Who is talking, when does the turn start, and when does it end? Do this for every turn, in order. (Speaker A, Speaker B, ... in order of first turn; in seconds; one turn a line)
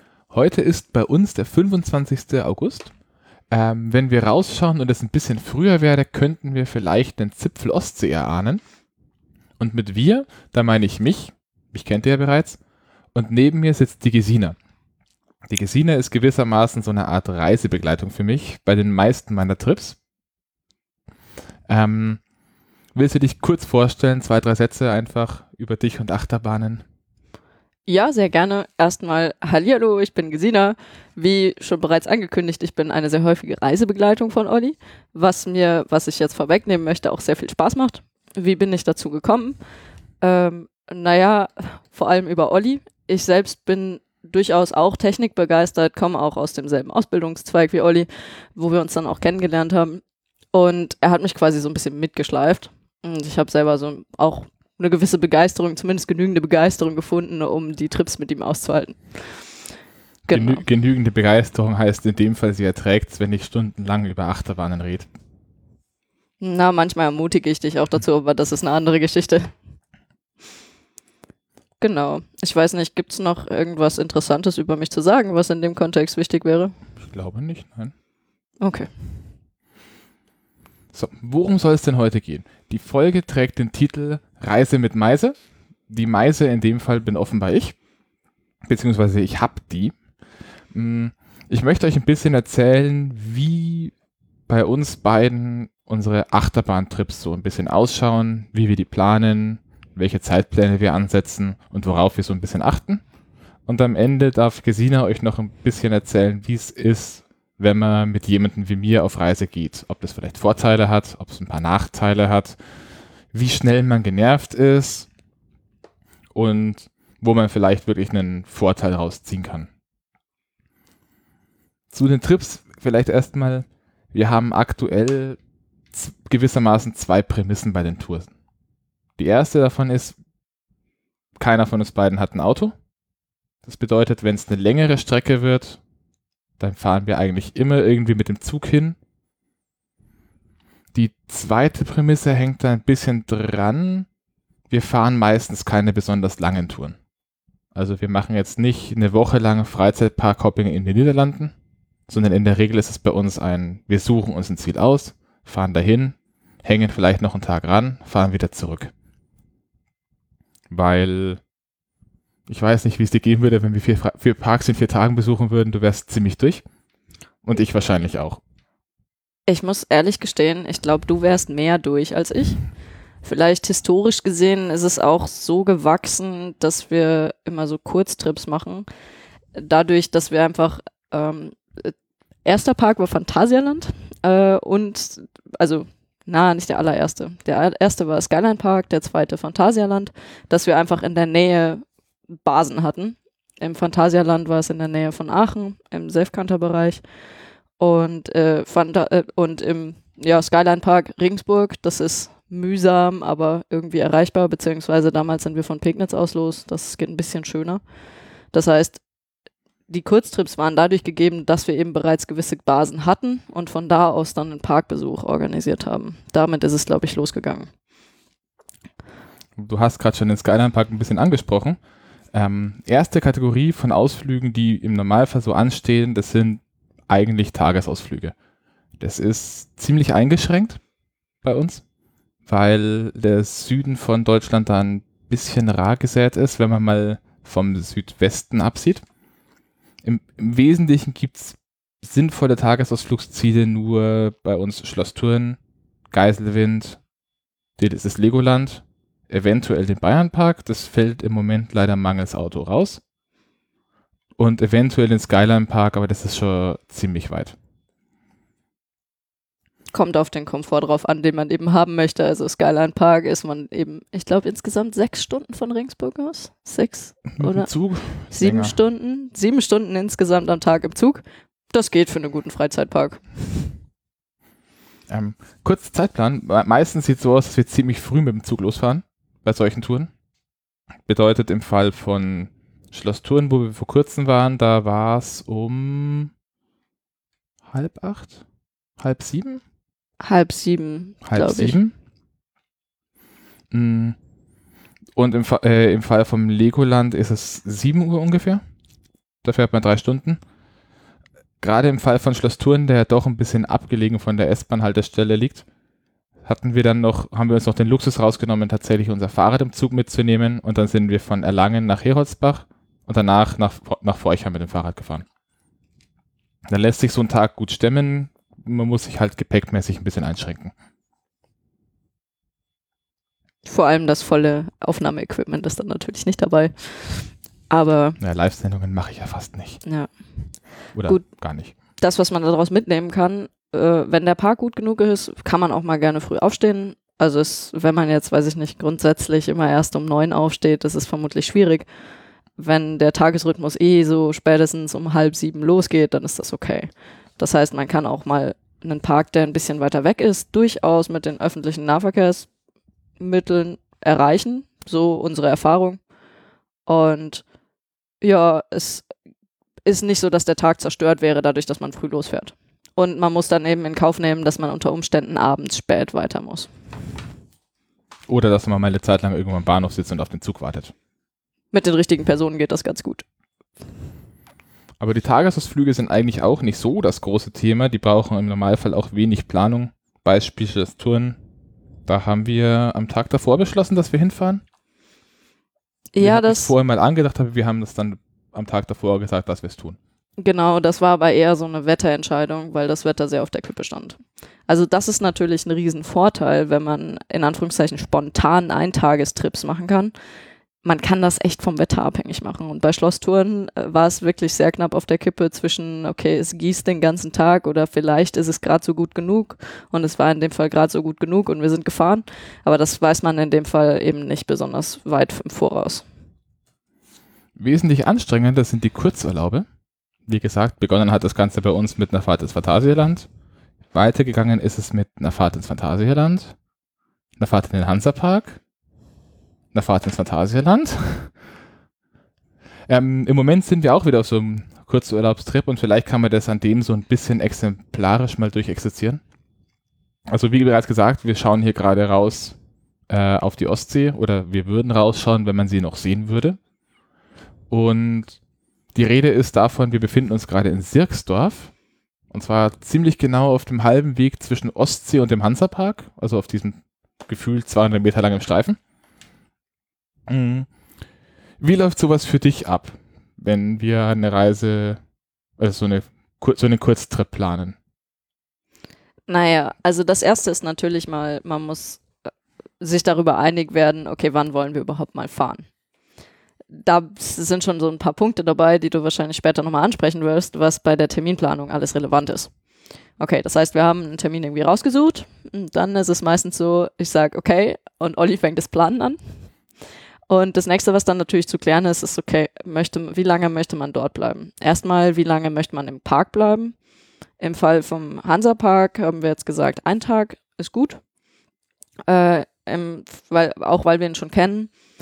Speaker A: 0.3-2.9
Speaker A: 3.5-8.6
Speaker A: 9.6-12.6
Speaker A: 13.2-14.6
Speaker A: 15.5-20.0
Speaker A: 21.7-22.2
Speaker A: 22.9-26.8
Speaker B: 27.9-39.6
Speaker B: 40.2-50.0
Speaker B: 50.5-59.5
Speaker B: 60.3-60.6
Speaker A: 60.3-65.1
Speaker B: 66.4-69.5
Speaker B: 71.8-76.7
Speaker A: 77.0-77.9
Speaker B: 78.6-78.9
Speaker A: 80.9-85.4
Speaker A: 85.9-87.8
Speaker A: 88.7-89.9
Speaker A: 90.7-93.9
Speaker A: 94.5-103.0
Speaker A: 103.7-112.6
Speaker A: 113.3-115.1
Speaker A: 116.3-119.7
Speaker A: 121.9-125.4
Speaker A: 125.9-128.3
Speaker A: 129.2-130.2
Speaker A: 131.4-132.7
Speaker A: 133.7-135.8
Speaker A: 136.6-139.0
Speaker A: 140.9-144.1
Speaker A: 144.7-147.0
Speaker A: 147.8-151.5
Speaker A: 152.1-158.9
Speaker A: 160.7-161.4
Speaker A: 162.5-166.6
Speaker A: 167.4-168.4
Speaker B: 169.5-172.6
Speaker B: 173.2-178.9
Speaker B: 179.6-181.9
Speaker B: 182.4-191.8
Speaker B: 192.4-197.0
Speaker B: 197.8-207.8
Speaker B: 208.5-209.0
Speaker B: 209.9-217.7
Speaker A: 219.6-221.8
Speaker A: 222.3-228.3
Speaker A: 229.0-230.8
Speaker A: 231.4-231.8
Speaker A: 232.5-239.0
Speaker A: 240.0-245.6
Speaker A: 246.1-247.0
Speaker A: 247.8-253.0
Speaker A: 254.4-257.6
Speaker B: 259.9-267.7
Speaker A: 267.3-268.8
Speaker B: 268.3-273.7
Speaker A: 275.1-280.1
Speaker A: 281.1-286.3
Speaker A: 287.7-288.4
Speaker A: 289.0-289.6
Speaker B: 290.2-291.8
Speaker A: 291.2-291.9
Speaker A: 293.7-294.2
Speaker A: 295.2-298.6
Speaker A: 299.4-300.4
Speaker A: 301.6-305.6
Speaker A: 306.4-315.3
Speaker A: 316.7-320.7
Speaker B: 323.6-328.2
Speaker A: 328.2-329.8
Speaker B: 329.8-330.1
Speaker A: 330.9-331.7
Speaker B: 332.0-341.9
Speaker B: 342.6-352.5
Speaker B: 353.2-356.0
Speaker B: 356.9-357.4
Speaker B: 358.2-359.1
Speaker B: 359.9-366.7
Speaker A: 368.3-370.9
Speaker B: 371.7-373.2
Speaker A: 375.0-381.4
Speaker A: 382.1-384.6
Speaker B: 386.1-386.7
Speaker A: 386.2-390.0
Speaker B: 390.4-400.1
Speaker B: 400.8-416.1
Speaker A: 417.6-419.6
Speaker A: 420.3-423.3
Speaker A: 423.9-426.6
Speaker A: 427.4-428.6
Speaker A: 429.7-431.3
Speaker A: 432.9-439.2
Speaker A: 440.3-442.6
Speaker A: 443.1-446.6
Speaker A: 447.7-448.4
Speaker A: 448.9-451.7
Speaker A: 452.3-458.8
Speaker A: 460.3-460.7
Speaker A: 461.6-465.0
Speaker A: 465.6-467.8
Speaker B: 469.3-472.1
Speaker B: 472.8-475.7
Speaker B: 476.7-482.5
Speaker B: 483.2-489.2
Speaker B: 490.3-496.8
Speaker B: 497.4-501.0
Speaker B: 502.1-504.7